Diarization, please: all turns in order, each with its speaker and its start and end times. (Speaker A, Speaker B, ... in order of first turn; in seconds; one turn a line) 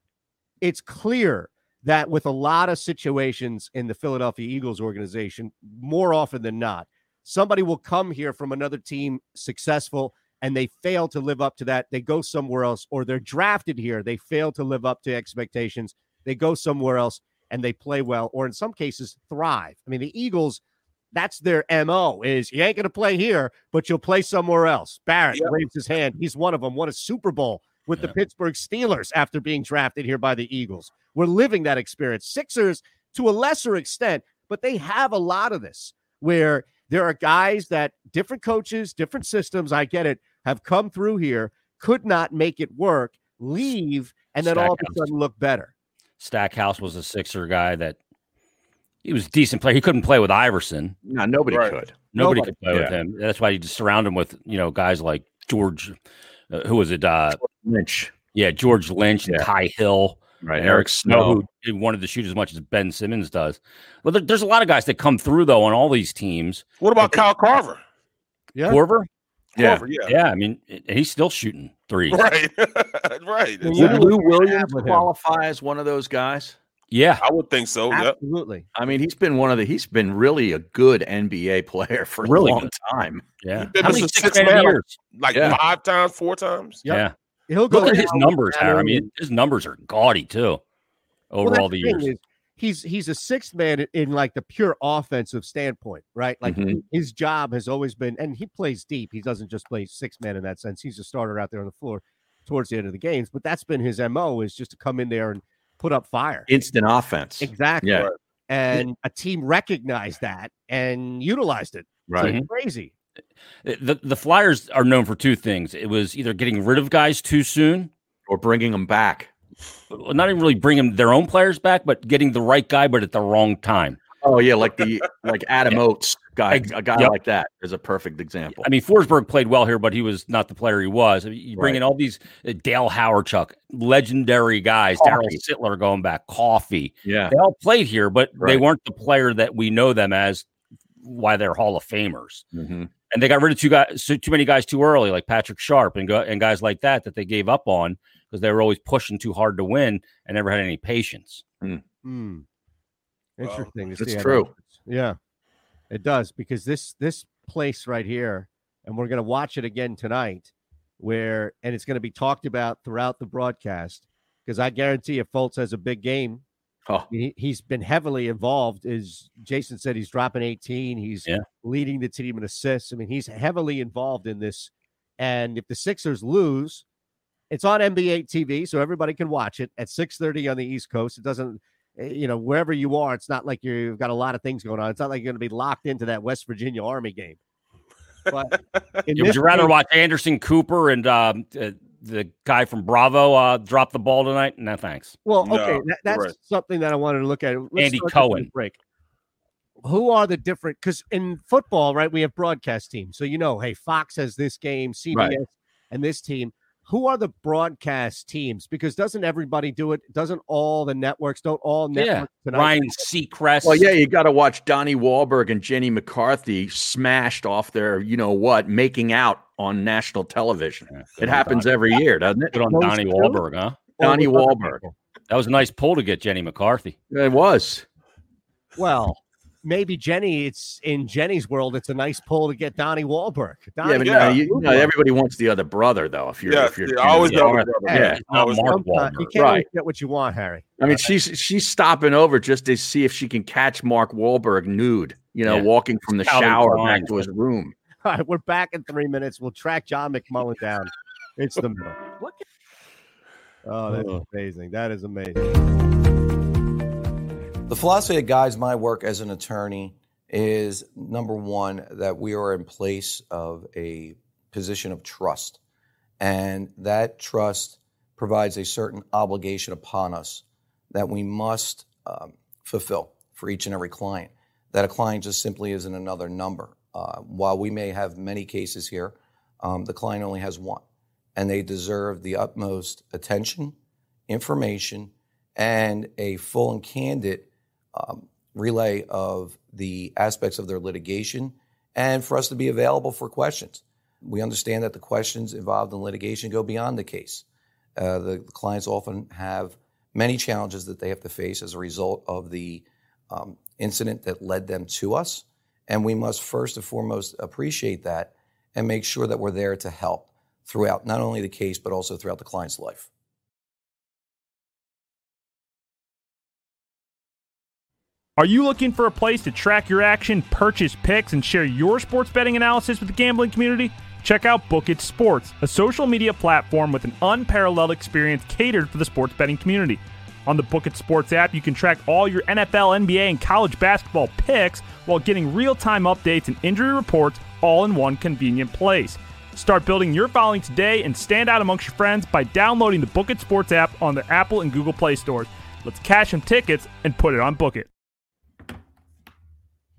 Speaker A: 0.6-20.6
Speaker A: 21.1-45.7
Speaker B: 44.4-45.1
Speaker B: 46.2-48.0
Speaker B: 49.0-51.0
Speaker C: 51.0-52.0
Speaker D: 51.5-51.8
Speaker B: 52.1-56.0
Speaker A: 52.1-52.5
Speaker B: 56.5-57.4
Speaker C: 57.4-58.1
Speaker B: 58.3-67.0
Speaker C: 60.4-61.4
Speaker D: 66.8-67.8
Speaker A: 68.5-68.8
Speaker B: 68.7-69.1
Speaker D: 69.5-70.1
Speaker C: 69.6-69.8
Speaker B: 70.0-72.2
Speaker D: 72.1-74.0
Speaker A: 73.6-75.1
Speaker C: 73.7-76.5
Speaker B: 76.9-77.2
Speaker D: 77.2-78.1
Speaker A: 77.9-78.7
Speaker C: 78.7-83.3
Speaker B: 82.2-82.7
Speaker B: 83.4-85.0
Speaker D: 83.6-86.8
Speaker C: 85.3-85.6
Speaker A: 86.8-89.1
Speaker B: 86.9-87.1
Speaker B: 87.7-90.6
Speaker B: 91.3-92.1
Speaker A: 91.4-106.5
Speaker C: 96.4-96.8
Speaker C: 106.5-108.1
Speaker A: 107.4-112.9
Speaker B: 112.2-112.5
Speaker B: 113.6-117.9
Speaker C: 118.3-119.3
Speaker B: 119.9-124.0
Speaker C: 124.2-128.7
Speaker B: 126.5-127.1
Speaker B: 128.5-140.4
Speaker C: 135.0-135.4
Speaker C: 137.0-137.3
Speaker B: 141.0-142.4
Speaker C: 142.5-142.9
Speaker B: 143.1-151.4
Speaker A: 152.0-152.4
Speaker A: 153.4-155.2
Speaker C: 154.0-154.5
Speaker A: 155.9-166.4
Speaker A: 167.1-176.8
Speaker A: 177.5-187.4
Speaker A: 188.3-189.7
Speaker B: 189.1-195.2
Speaker A: 195.2-198.8
Speaker D: 195.4-196.3
Speaker B: 197.7-198.5
Speaker A: 199.8-213.0
Speaker C: 205.1-205.4
Speaker B: 211.9-213.9
Speaker C: 213.6-222.7
Speaker B: 220.9-221.7
Speaker B: 222.5-223.9
Speaker A: 222.7-223.4
Speaker A: 224.0-224.9
Speaker C: 224.0-224.8
Speaker B: 225.3-226.9
Speaker C: 227.1-227.8
Speaker A: 228.8-234.9
Speaker C: 233.8-238.2
Speaker D: 234.0-234.4
Speaker D: 236.4-238.6
Speaker A: 237.8-240.7
Speaker B: 238.0-239.4
Speaker C: 239.4-239.7
Speaker C: 240.8-247.7
Speaker B: 246.2-247.2
Speaker A: 248.0-252.0
Speaker A: 253.6-255.4
Speaker E: 257.7-265.6
Speaker E: 266.2-280.8
Speaker E: 281.4-283.7
Speaker E: 284.3-297.4
Speaker E: 297.9-313.1
Speaker F: 318.4-347.9